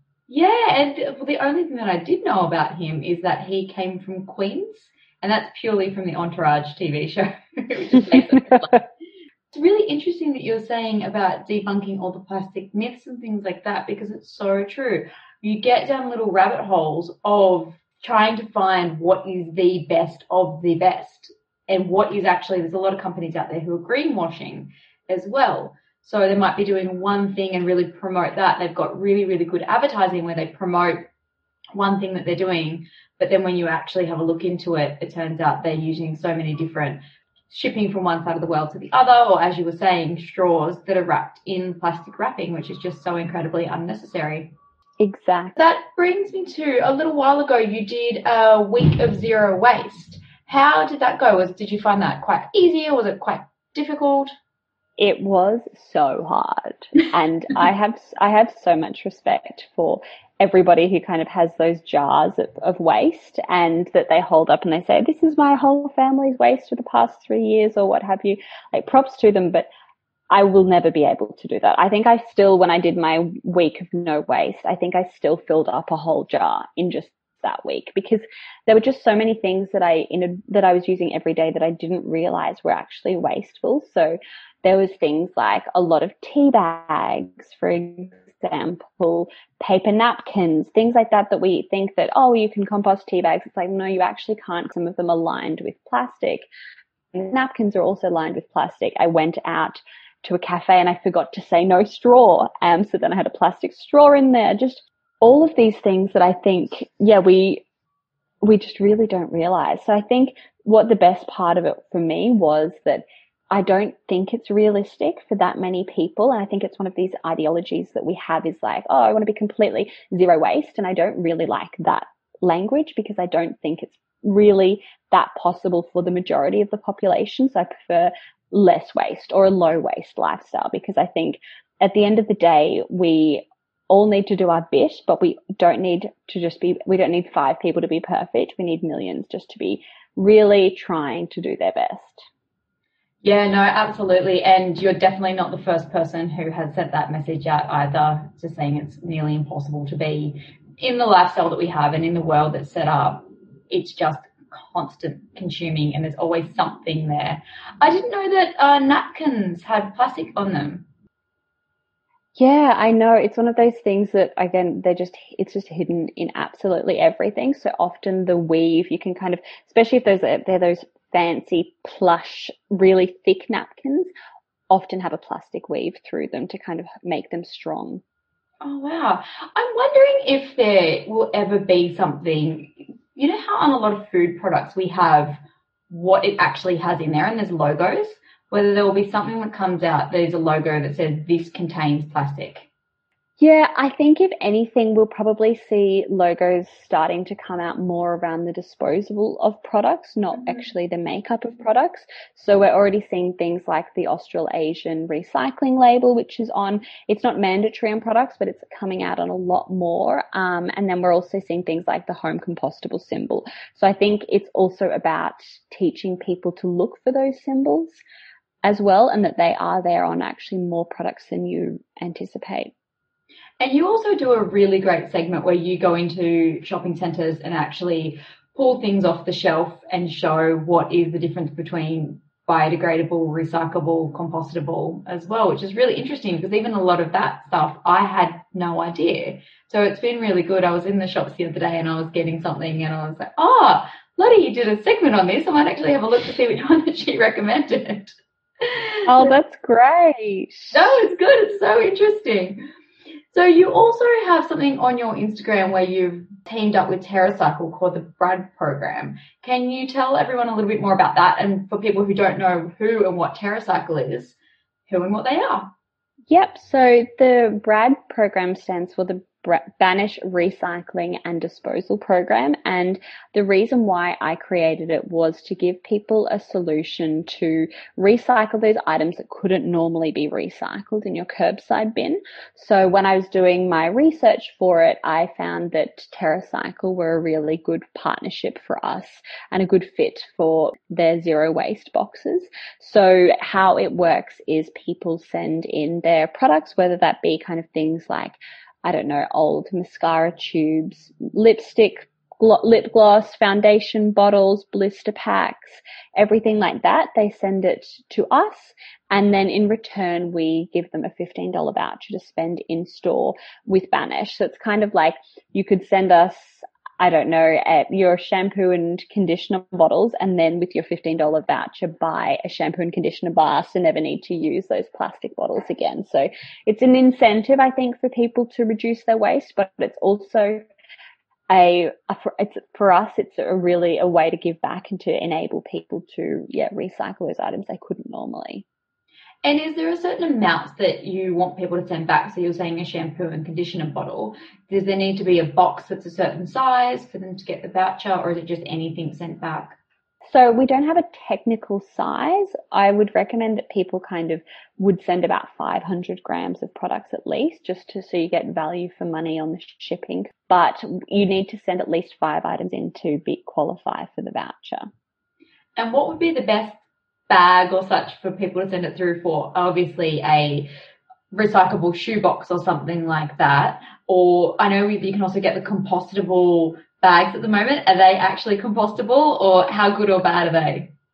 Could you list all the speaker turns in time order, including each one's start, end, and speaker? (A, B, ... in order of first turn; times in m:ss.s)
0:00.3-0:08.8 A
0:08.1-0:08.6 B
0:09.5-0:31.1 A
0:31.7-0:37.0 A
0:37.5-0:44.5 A
0:45.0-0:45.5 B
0:45.6-0:54.3 A
0:55.0-1:09.7 B
1:10.3-1:36.5 B
1:37.1-1:47.6 B
1:48.4-2:22.2 B
2:23.2-2:40.8 A
2:42.4-2:54.1 B
2:54.7-2:58.0 B
2:58.6-3:12.7 A
3:13.4-3:38.0 B
3:38.6-3:42.7 B
3:43.6-4:09.3 A
4:09.1-4:11.0 B
4:10.7-4:12.6 A
4:13.3-4:24.4 A
4:24.9-4:25.7 A
4:26.3-5:30.6 B
5:31.5-5:38.6 B
5:39.4-5:49.8 A
5:50.3-6:04.9 B
6:05.8-6:06.8 A
6:07.3-6:10.7 A
6:11.3-6:20.9 A